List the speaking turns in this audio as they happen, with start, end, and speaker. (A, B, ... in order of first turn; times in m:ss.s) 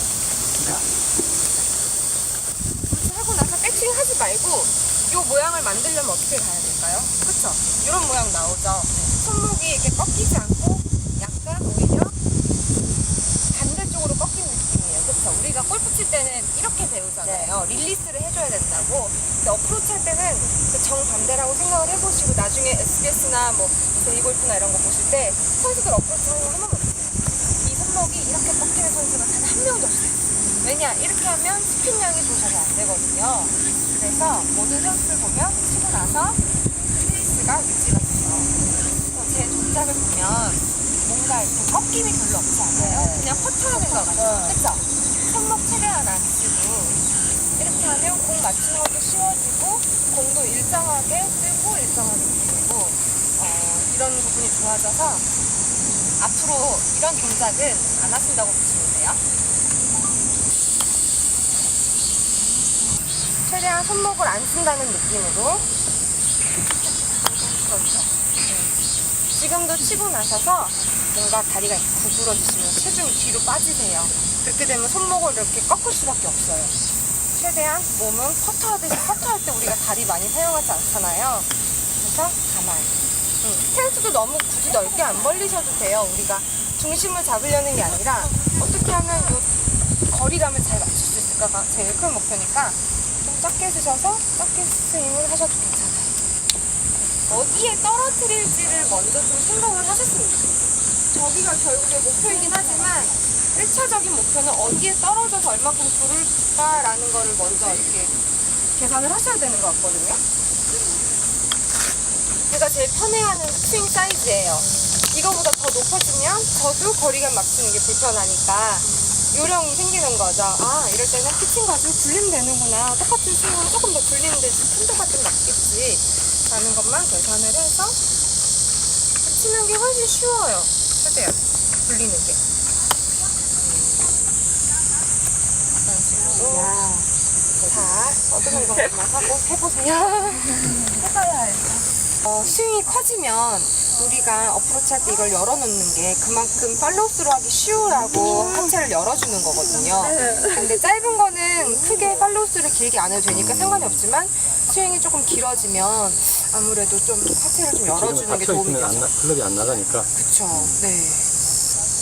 0:02.9-0:12.2 A
0:13.5-0:38.5 A
0:17.3-0:17.6 B
0:39.1-0:47.0 A
0:42.7-0:44.6 B
0:47.6-0:55.2 A
0:56.2-0:59.2 A
1:03.4-1:05.7 A
1:07.5-1:08.7 A
1:09.3-1:16.7 A
1:17.3-1:29.5 A
1:30.0-1:36.2 A
1:37.3-1:48.1 A
1:42.5-1:43.2 B
1:48.7-1:50.2 A
1:52.5-2:08.0 A
2:09.2-2:12.4 A
2:13.6-2:14.2 A
2:15.8-2:16.8 A
2:16.4-2:17.1 B
2:17.7-2:20.7 A
2:20.7-2:21.8 B
2:22.2-2:39.1 A
2:37.9-2:40.1 C
2:40.1-2:41.3 A